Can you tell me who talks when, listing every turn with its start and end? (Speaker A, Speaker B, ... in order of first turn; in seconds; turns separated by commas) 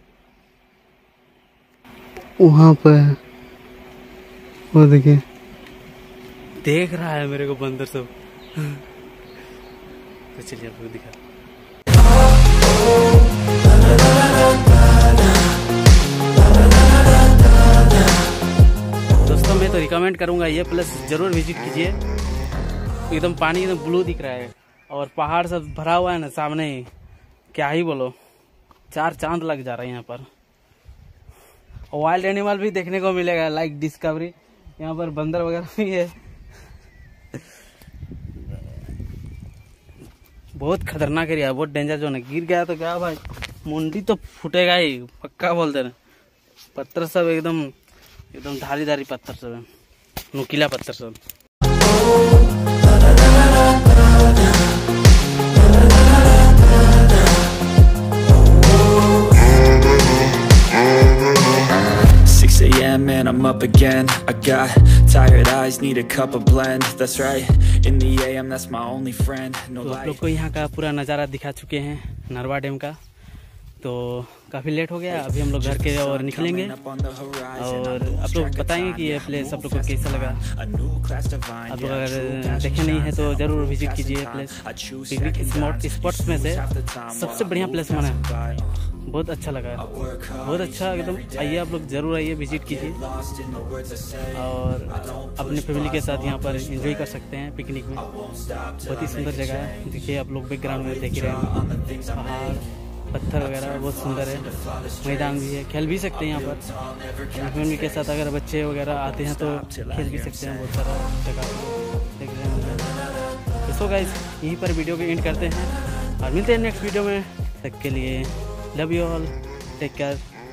Speaker A: 2.4-3.2, Speaker A: 4.7-5.2, Speaker A: 6.6-8.8, Speaker A: 10.3-11.2, Speaker A: 19.2-22.0, Speaker A: 23.1-26.9, Speaker A: 27.5-28.1, Speaker A: 28.9-30.3, Speaker A: 31.9-36.1, Speaker A: 40.5-45.9, Speaker A: 46.7-47.7, Speaker A: 48.3-49.7, Speaker A: 50.3-51.2, Speaker B: 61.8-70.2, Speaker A: 69.8-73.0, Speaker A: 73.8-76.8, Speaker B: 75.1-88.8, Speaker A: 77.6-80.4, Speaker A: 81.7-84.5, Speaker A: 85.1-88.2, Speaker A: 89.0-89.8, Speaker B: 89.8-91.8, Speaker A: 90.4-93.0, Speaker B: 92.5-97.2, Speaker A: 94.3-98.0, Speaker B: 97.9-100.1, Speaker A: 98.8-101.5, Speaker B: 100.6-102.6, Speaker A: 102.1-104.5, Speaker B: 103.3-108.2, Speaker A: 105.0-106.6, Speaker A: 107.3-112.9, Speaker B: 108.8-111.1, Speaker A: 113.7-120.2